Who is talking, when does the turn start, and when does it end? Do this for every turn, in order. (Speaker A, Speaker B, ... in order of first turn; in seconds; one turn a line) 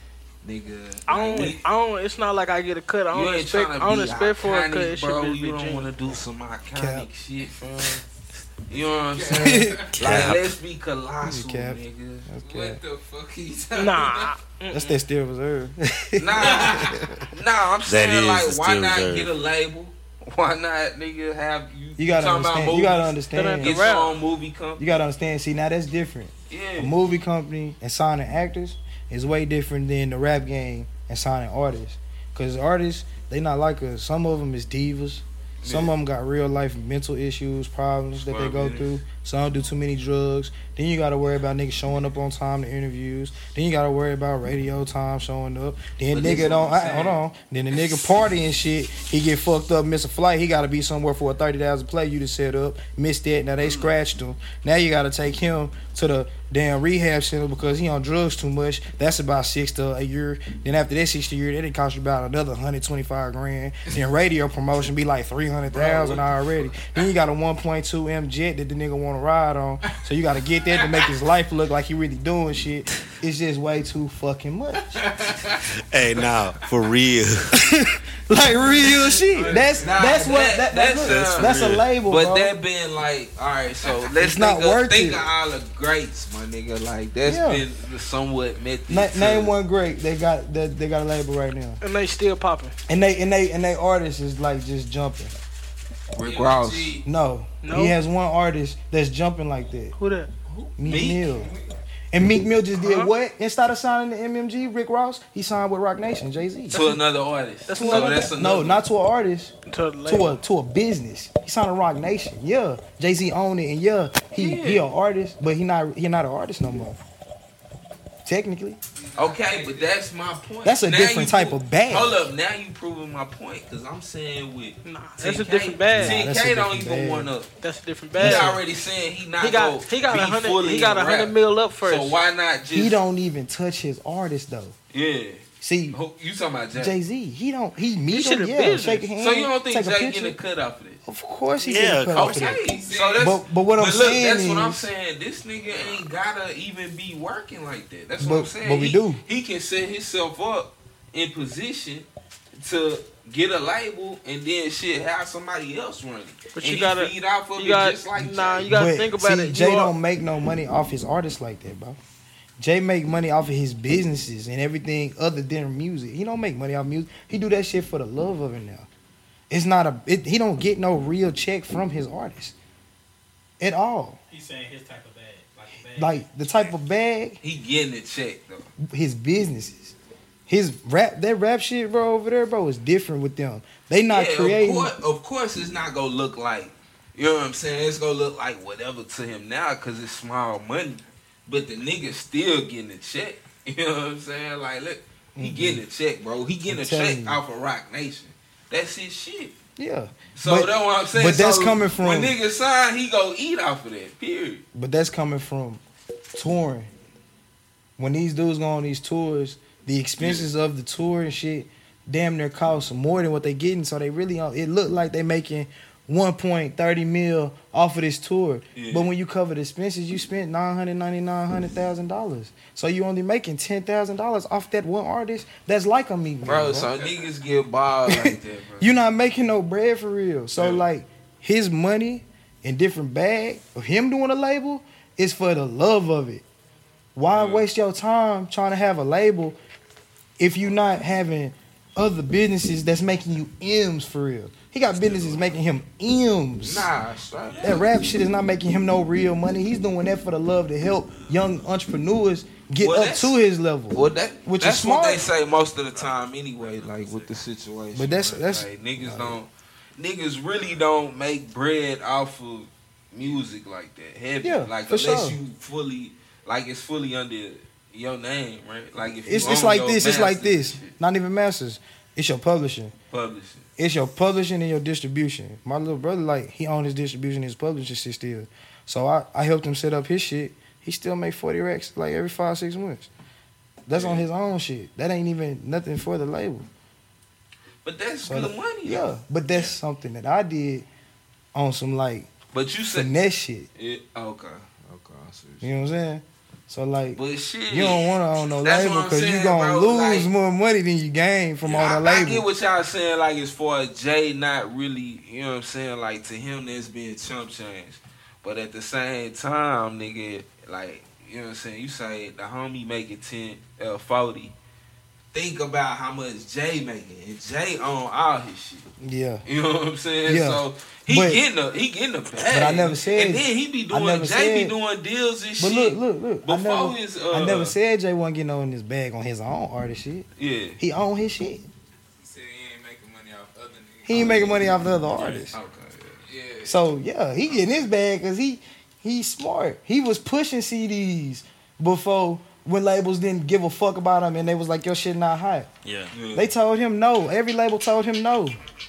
Speaker A: 0.4-1.6
Speaker B: 1.1-5.9
Speaker A: 3.1-7.6
Speaker C: 6.7-7.1
Speaker B: 7.6-8.0
Speaker A: 8.7-12.3
Speaker D: 8.7-10.0
Speaker C: 9.3-10.2
Speaker E: 9.9-10.5
Speaker C: 11.2-12.8
Speaker D: 12.4-14.3
Speaker B: 13.7-15.0
Speaker C: 14.7-17.2
Speaker A: 16.2-24.9
Speaker D: 16.4-17.0
Speaker E: 17.9-19.3
Speaker C: 22.0-23.8
Speaker B: 23.3-24.1
Speaker C: 24.8-75.0
Speaker A: 26.5-26.9
Speaker A: 35.6-35.9
Speaker A: 38.2-38.9
Speaker A: 46.1-47.2
Speaker A: 53.6-53.9
Speaker A: 65.7-66.6
Speaker D: 70.8-71.0
Speaker D: 74.9-75.7
Speaker E: 75.8-77.6
Speaker C: 77.6-82.5
Speaker D: 79.3-80.3
Speaker A: 79.8-89.5
Speaker E: 81.0-81.8
Speaker C: 84.2-85.2
Speaker C: 87.2-87.6
Speaker C: 88.9-91.8
Speaker B: 91.8-92.8
Speaker C: 92.9-95.3
Speaker A: 96.1-97.0
Speaker D: 96.2-97.0
Speaker C: 97.0-99.9
Speaker B: 97.6-98.0
Speaker B: 100.0-100.3
Speaker A: 100.5-101.3
Speaker C: 100.8-101.5
Speaker C: 102.1-106.8
Speaker B: 102.8-103.1
Speaker B: 106.7-107.0
Speaker A: 106.7-108.8
Speaker B: 107.7-108.3
Speaker C: 107.8-109.5
Speaker B: 109.7-110.4
Speaker C: 110.0-117.0
Speaker A: 114.3-114.8
Speaker C: 118.2-118.8
Speaker D: 119.0-120.1
Speaker A: 119.2-127.5
Speaker C: 120.6-122.2
Speaker B: 124.8-126.2
Speaker C: 125.9-127.3
Speaker B: 127.6-128.6
Speaker C: 128.2-128.6
Speaker A: 128.2-133.0
Speaker B: 129.4-132.2
Speaker C: 132.7-134.7
Speaker A: 134.9-136.9
Speaker C: 135.6-136.0
Speaker C: 136.7-140.4
Speaker B: 138.1-139.1
Speaker A: 139.2-141.0
Speaker C: 141.1-142.6
Speaker E: 141.6-142.5
Speaker A: 142.1-158.7
Speaker D: 142.6-143.4
Speaker C: 143.2-144.8
Speaker C: 148.2-149.2
Speaker B: 156.5-159.9
Speaker C: 158.7-162.0
Speaker C: 162.6-168.9
Speaker C: 169.5-172.5
Speaker C: 173.6-174.2
Speaker F: 174.3-176.2
Speaker C: 175.9-177.4
Speaker A: 177.4-178.7
Speaker C: 178.9-179.9
Speaker C: 180.5-184.9
Speaker A: 184.1-199.5
Speaker C: 195.3-195.8
Speaker C: 196.7-197.4
Speaker C: 199.8-202.3
Speaker A: 200.3-204.6
Speaker C: 204.7-205.8
Speaker C: 206.3-206.9
Speaker C: 208.0-226.9
Speaker A: 210.2-210.5
Speaker A: 218.7-219.1
Speaker A: 226.4-228.9
Speaker C: 228.1-236.4
Speaker A: 230.6-230.8
Speaker C: 237.2-239.6
Speaker A: 237.3-237.7
Speaker C: 240.4-246.9
Speaker A: 246.6-247.9
Speaker C: 247.6-255.2
Speaker A: 252.8-253.3
Speaker A: 253.9-270.9
Speaker C: 257.9-259.4
Speaker C: 264.4-265.4
Speaker C: 269.2-272.9
Speaker A: 273.1-273.6
Speaker C: 273.8-283.1
Speaker C: 283.9-286.7
Speaker A: 283.9-284.2
Speaker A: 287.8-289.1
Speaker C: 288.2-290.9
Speaker C: 291.5-292.3
Speaker A: 292.5-293.1
Speaker C: 292.9-293.7
Speaker A: 293.8-295.7
Speaker C: 295.6-302.4
Speaker A: 297.1-298.1
Speaker A: 298.6-300.3
Speaker A: 301.6-314.5
Speaker A: 315.3-318.9
Speaker C: 319.0-319.4
Speaker A: 319.4-327.8
Speaker C: 320.2-321.4
Speaker C: 322.4-324.7
Speaker C: 325.6-330.3
Speaker A: 330.4-330.8
Speaker C: 330.8-331.7
Speaker D: 332.2-334.4
Speaker C: 334.1-335.5
Speaker A: 334.1-336.2
Speaker D: 336.2-336.9
Speaker C: 336.6-345.7
Speaker E: 345.8-346.1
Speaker A: 346.1-346.5
Speaker C: 346.3-348.6